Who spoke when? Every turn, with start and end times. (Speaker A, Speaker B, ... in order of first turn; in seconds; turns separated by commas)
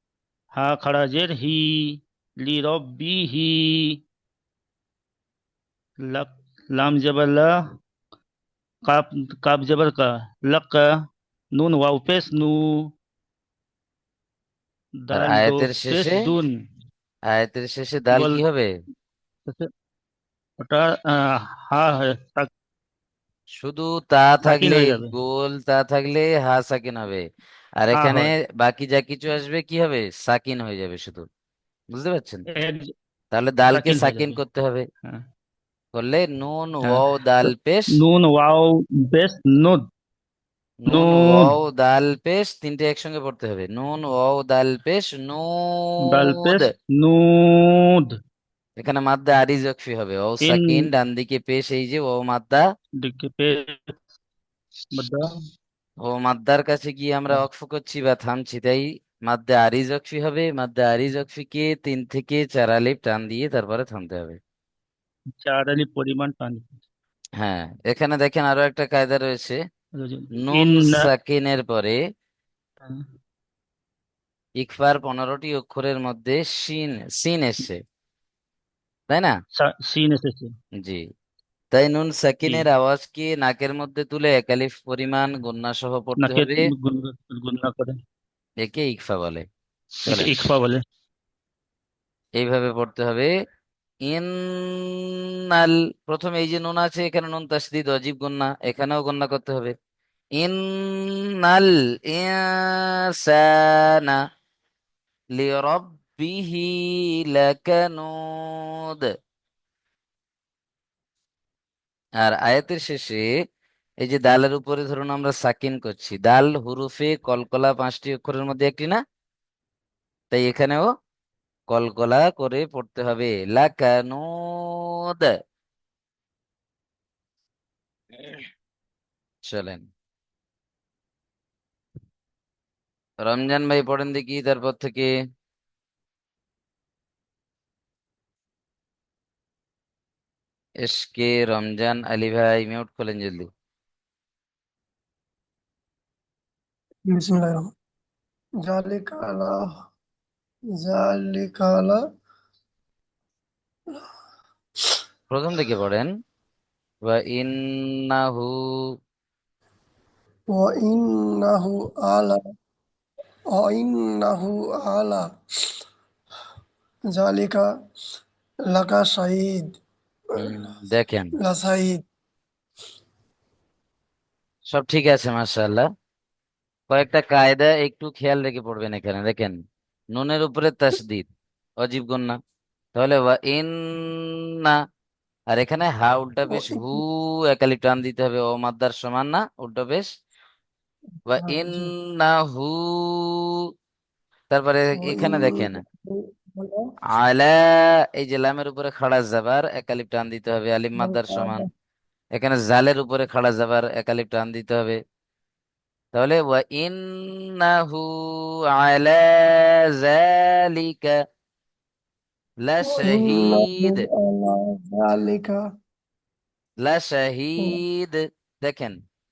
Speaker A: 0.6-4.0, Speaker A: 6.1-7.5, Speaker A: 8.9-10.8, Speaker A: 11.6-12.6, Speaker A: 15.1-16.5, Speaker B: 15.1-16.2, Speaker B: 17.3-18.7, Speaker A: 18.1-18.4, Speaker A: 20.6-20.9, Speaker A: 21.7-22.5, Speaker B: 23.6-27.2, Speaker A: 24.4-25.1, Speaker B: 27.8-31.2, Speaker A: 28.0-28.3, Speaker B: 31.9-32.5, Speaker A: 32.5-32.9, Speaker B: 33.3-34.8, Speaker A: 33.7-34.4, Speaker B: 36.0-37.9, Speaker A: 36.9-39.8, Speaker B: 40.8-46.6, Speaker A: 40.9-41.5, Speaker A: 46.1-48.1, Speaker B: 48.8-52.6, Speaker A: 50.4-50.9, Speaker A: 53.0-54.0, Speaker A: 54.9-55.3, Speaker B: 56.0-64.4, Speaker A: 65.3-66.8, Speaker B: 67.4-69.6, Speaker A: 70.0-71.1, Speaker B: 70.4-72.0, Speaker B: 74.6-77.8, Speaker A: 79.6-80.5, Speaker B: 81.7-86.7, Speaker A: 86.2-88.0, Speaker B: 88.6-89.5, Speaker A: 90.0-90.8, Speaker B: 90.0-90.4, Speaker B: 92.4-93.3, Speaker B: 94.1-99.7, Speaker B: 100.4-104.2, Speaker B: 105.4-109.1, Speaker B: 112.2-113.2, Speaker B: 114.0-119.0, Speaker B: 120.3-120.9, Speaker B: 121.7-125.3, Speaker B: 128.1-128.5, Speaker B: 129.5-129.9, Speaker B: 133.2-135.1, Speaker B: 140.8-143.5, Speaker C: 147.1-147.7, Speaker C: 148.6-149.7, Speaker C: 150.8-152.0, Speaker B: 155.3-156.1, Speaker B: 157.1-158.5, Speaker C: 160.6-162.4, Speaker C: 163.6-165.2, Speaker C: 167.1-167.6, Speaker C: 168.7-169.8, Speaker C: 170.4-170.7, Speaker B: 170.4-171.3, Speaker C: 171.4-172.0, Speaker B: 174.7-175.9, Speaker B: 176.9-179.6, Speaker B: 180.1-181.3, Speaker B: 181.8-182.4, Speaker B: 182.9-184.8, Speaker B: 185.5-190.1, Speaker C: 186.5-187.0, Speaker B: 191.3-193.6, Speaker C: 191.4-191.9, Speaker B: 194.5-195.8, Speaker C: 195.0-196.9, Speaker B: 197.2-201.7, Speaker C: 201.0-201.7, Speaker B: 202.3-205.0, Speaker B: 206.1-208.1, Speaker B: 208.8-211.1, Speaker B: 212.7-214.1, Speaker C: 212.8-215.6, Speaker B: 216.8-219.0